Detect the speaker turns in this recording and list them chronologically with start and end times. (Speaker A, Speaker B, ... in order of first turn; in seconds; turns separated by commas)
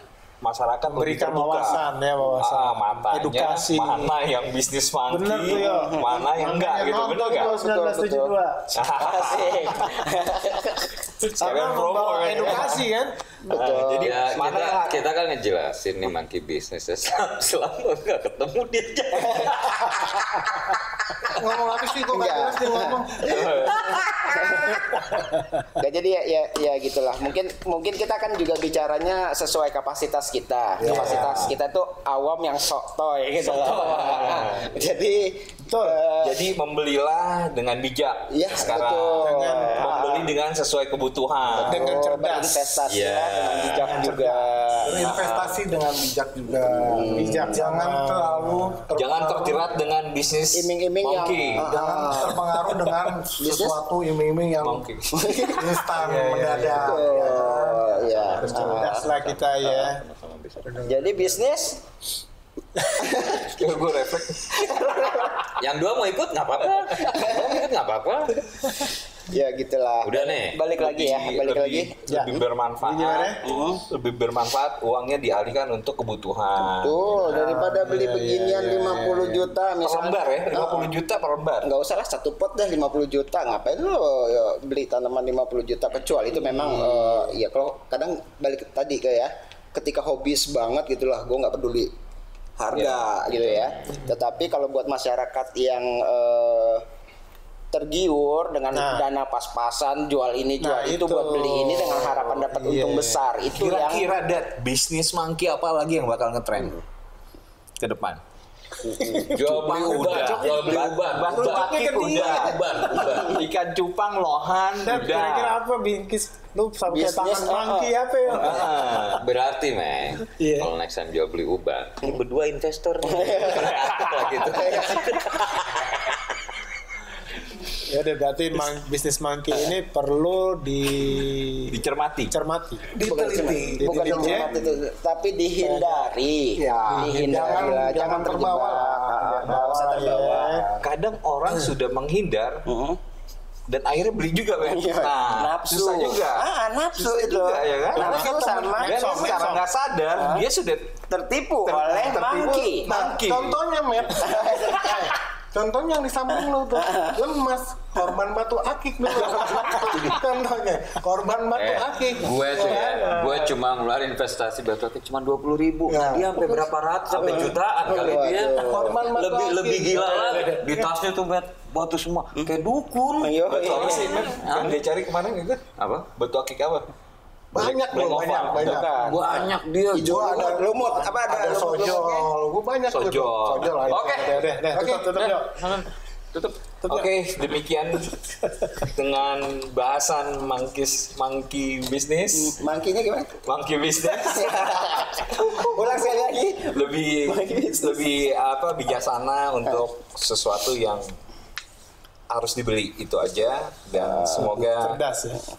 Speaker A: 0.4-7.5, Speaker B: 0.9-4.1, Speaker B: 5.1-8.9, Speaker C: 5.5-6.1, Speaker C: 7.4-8.3, Speaker A: 8.8-9.8, Speaker C: 9.0-10.9, Speaker A: 11.2-12.9, Speaker B: 11.3-13.2, Speaker C: 13.4-14.2, Speaker A: 13.5-15.0, Speaker D: 13.5-20.7, Speaker C: 19.2-19.6, Speaker E: 21.3-23.5, Speaker C: 22.1-25.2, Speaker A: 23.2-24.1, Speaker D: 23.5-24.8, Speaker B: 25.1-25.6, Speaker C: 25.8-36.4, Speaker E: 30.8-31.3, Speaker B: 30.9-31.5, Speaker A: 30.9-31.5, Speaker A: 33.4-34.7, Speaker B: 35.6-36.0, Speaker A: 36.2-41.8, Speaker C: 38.3-40.3, Speaker B: 39.2-40.0, Speaker C: 41.5-45.5, Speaker B: 41.6-42.8, Speaker D: 42.9-44.1, Speaker B: 43.8-44.5, Speaker D: 44.7-45.0, Speaker E: 44.8-49.9, Speaker C: 46.5-47.6, Speaker B: 47.1-48.8, Speaker A: 49.0-51.7, Speaker C: 50.5-53.8, Speaker E: 51.6-54.9, Speaker A: 54.6-55.1, Speaker C: 55.1-55.7, Speaker E: 55.5-59.0, Speaker B: 56.0-57.1, Speaker C: 56.8-59.1, Speaker D: 58.1-60.8, Speaker B: 58.6-60.0, Speaker B: 60.6-61.4, Speaker C: 60.8-61.8, Speaker C: 63.0-63.5, Speaker A: 63.3-65.1, Speaker C: 64.5-65.5, Speaker D: 65.5-68.5, Speaker C: 67.0-67.7, Speaker C: 69.3-72.0, Speaker D: 70.0-70.6, Speaker A: 70.8-77.0, Speaker B: 72.1-73.4, Speaker C: 73.4-73.8, Speaker C: 76.6-80.9, Speaker B: 77.2-79.5, Speaker A: 79.8-81.7, Speaker C: 81.6-91.9, Speaker B: 86.3-87.4, Speaker C: 92.6-96.8, Speaker A: 92.8-93.0, Speaker D: 93.3-94.0, Speaker C: 97.7-104.1, Speaker B: 98.7-99.1, Speaker B: 100.6-103.2, Speaker A: 103.5-106.8, Speaker A: 107.8-108.2, Speaker C: 108.8-109.3, Speaker B: 108.8-112.6, Speaker D: 109.3-113.4, Speaker A: 109.5-115.6, Speaker C: 112.8-113.4, Speaker B: 114.8-118.8, Speaker C: 116.9-118.6, Speaker A: 118.3-119.2, Speaker D: 119.0-126.2, Speaker B: 120.2-120.7, Speaker C: 123.0-125.4, Speaker A: 123.4-124.4, Speaker B: 127.9-131.8, Speaker A: 131.7-132.3, Speaker B: 132.3-132.9, Speaker E: 132.9-134.8, Speaker C: 133.0-140.6, Speaker B: 133.8-134.5, Speaker B: 135.6-136.1, Speaker E: 136.6-140.9, Speaker B: 136.9-137.4, Speaker B: 139.4-140.7, Speaker A: 140.8-142.6, Speaker C: 142.7-143.0, Speaker A: 143.7-150.9, Speaker C: 144.6-149.5, Speaker E: 148.0-148.7, Speaker B: 148.0-149.7, Speaker C: 150.2-150.5, Speaker C: 151.1-152.9, Speaker A: 151.7-153.6, Speaker E: 152.9-163.5, Speaker C: 154.2-155.2, Speaker C: 156.8-157.2, Speaker B: 159.4-160.1, Speaker D: 161.6-174.8, Speaker B: 162.6-163.3, Speaker E: 165.9-166.4, Speaker C: 167.1-169.0, Speaker E: 167.9-170.9, Speaker C: 173.2-174.4, Speaker A: 173.5-175.6, Speaker D: 175.8-176.1, Speaker A: 176.2-176.9, Speaker E: 177.5-178.9, Speaker A: 177.6-178.8, Speaker C: 178.6-182.3, Speaker D: 178.9-180.5, Speaker E: 180.0-185.3, Speaker A: 182.9-183.8, Speaker D: 183.9-184.5, Speaker B: 184.1-185.6, Speaker D: 185.2-186.7, Speaker A: 186.8-188.2, Speaker A: 188.8-192.6, Speaker C: 192.3-193.3, Speaker A: 193.4-201.1, Speaker C: 194.1-198.2, Speaker A: 202.3-205.0, Speaker C: 203.9-204.6, Speaker B: 204.3-205.4